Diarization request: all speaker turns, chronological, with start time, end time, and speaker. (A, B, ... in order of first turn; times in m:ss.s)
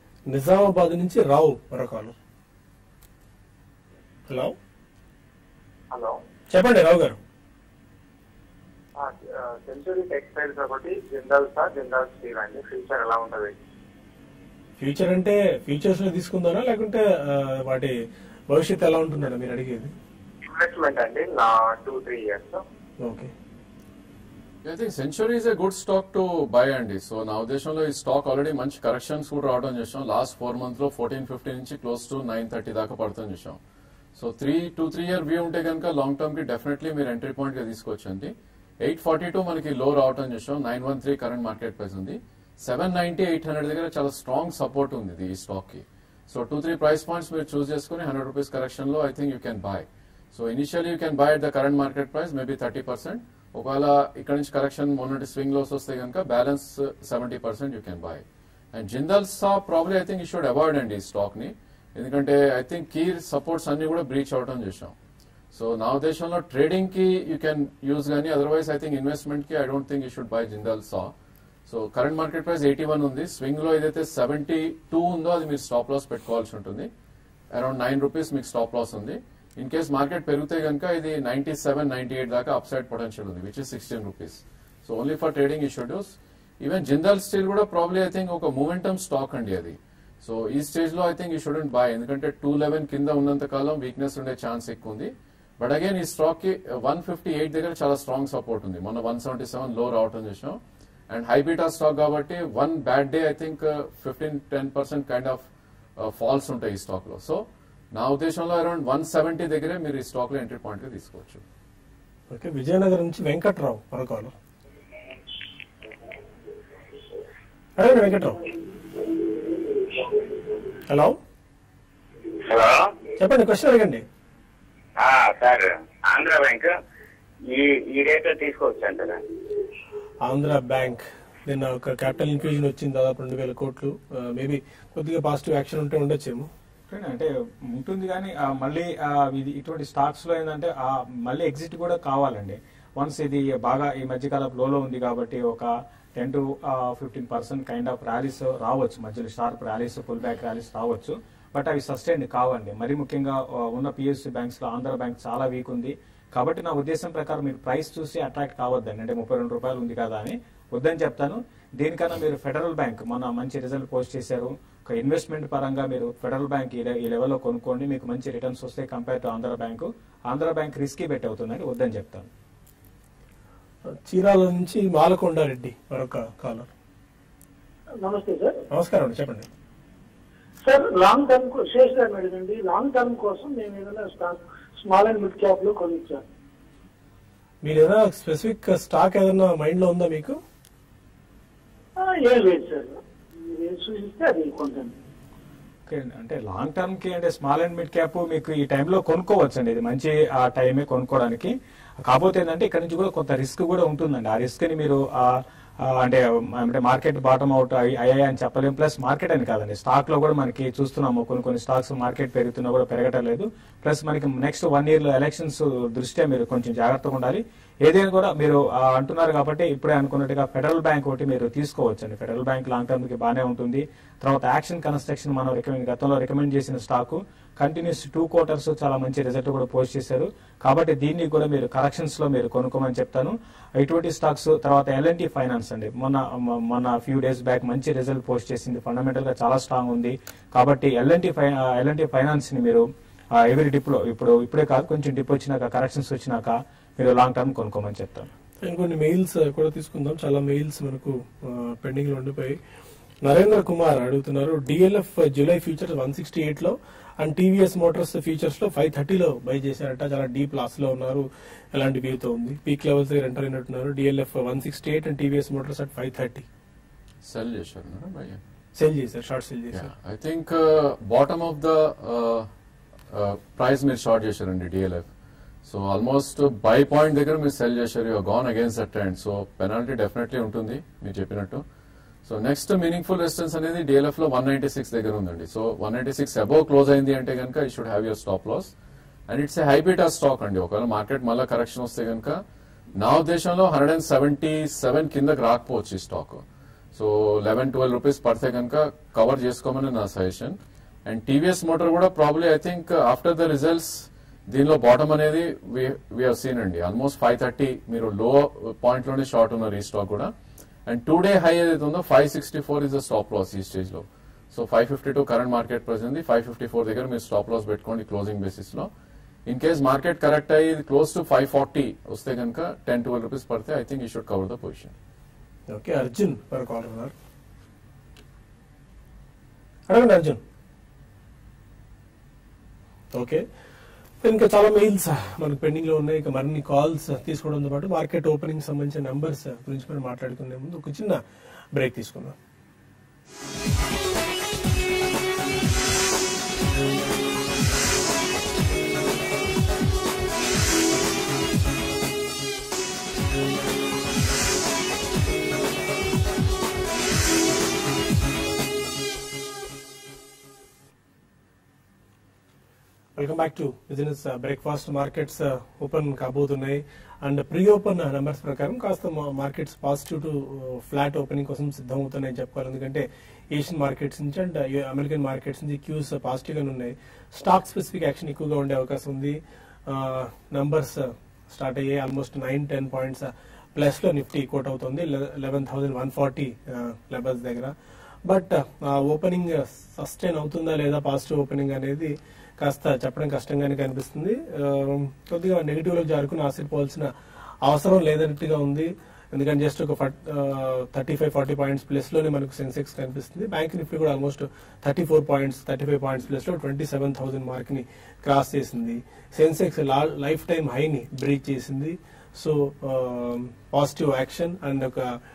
0:00.3-0:02.1 A
0:04.3-0:04.6 A
0:05.9-0:06.2 B
0:06.5-0:07.2 A
0:09.0-0:13.5 B
0:14.8-0:18.0 A
0:18.5-0:19.9 A
0:20.4-0:22.6 B
0:23.0-0:23.3 A
0:24.6-0:33.6 C
0:34.1-1:04.9 C
1:05.5-1:11.1 C
1:11.6-1:16.9 C
1:17.5-1:45.4 C
1:46.0-1:51.4 C
1:52.3-1:54.3 A
1:57.8-1:58.4 A
2:00.9-2:01.2 A
2:02.4-2:02.9 D
2:03.2-2:04.0 A
2:05.0-2:06.7 D
2:07.5-2:09.2 D
2:10.2-2:16.5 A
2:16.9-2:52.3 E
2:53.9-2:56.7 A
2:58.0-2:58.6 F
2:58.7-2:59.5 A
3:00.6-3:06.2 F
3:07.6-3:10.4 A
3:12.0-3:14.9 F
3:15.9-3:21.5 E
3:22.0-3:25.3 E
3:25.9-4:02.8 E
4:03.4-4:08.3 E
4:08.6-4:12.6 A
4:13.2-4:26.5 A
4:27.2-4:28.4 C
4:28.8-4:29.9 A
4:29.7-4:32.5 C
4:33.1-4:35.1 C
4:35.6-4:41.6 C
4:42.2-4:48.7 C
4:49.3-4:52.4 C
4:53.0-5:10.3 C
5:10.8-5:18.9 C
5:19.4-5:24.9 C
5:25.7-5:27.1 A
5:29.9-5:30.4 A
5:33.1-5:33.4 A
5:34.2-5:41.2 A
5:41.7-5:42.4 A
6:03.2-6:27.7 A
6:28.2-6:37.1 A
6:37.6-6:55.1 A